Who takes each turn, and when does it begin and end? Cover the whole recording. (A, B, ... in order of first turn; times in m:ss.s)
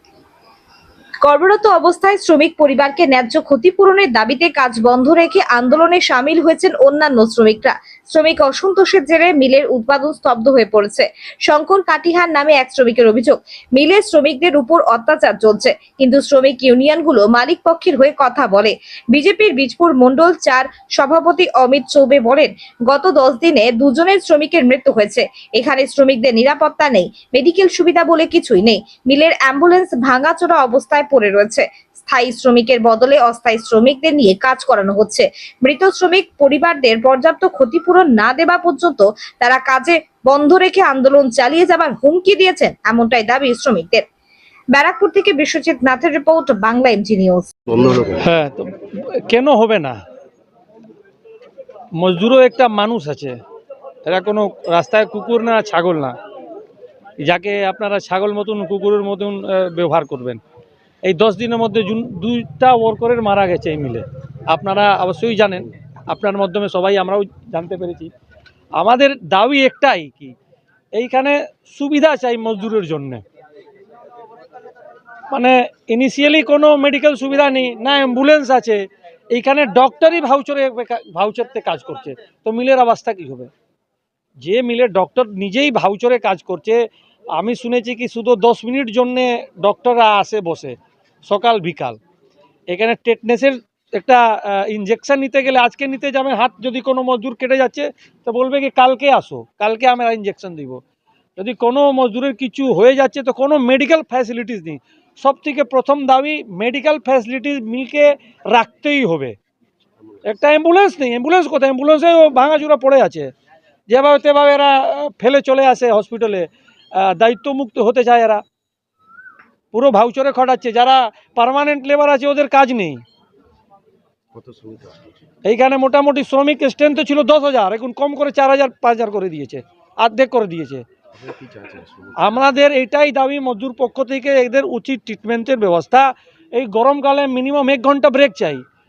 0:01.2-0:44.0 A
0:44.7-0:47.5 A
0:47.7-0:48.2 B
0:48.2-0:48.7 C
0:49.3-0:50.0 C
0:52.0-0:53.4 C
0:54.0-0:56.1 C
0:57.2-1:00.4 C
1:01.0-1:08.1 C
1:08.8-1:10.3 C
1:10.9-1:13.2 C
1:15.3-1:23.5 C
1:24.4-1:26.8 C
1:27.3-1:32.0 C
1:32.7-1:40.8 C
1:41.4-1:49.4 C
1:50.3-1:53.3 C
1:53.9-1:58.4 C
1:59.7-2:03.0 C
2:04.3-2:05.2 B
2:05.4-2:10.8 C
2:11.1-2:12.5 B
2:12.2-2:18.6 C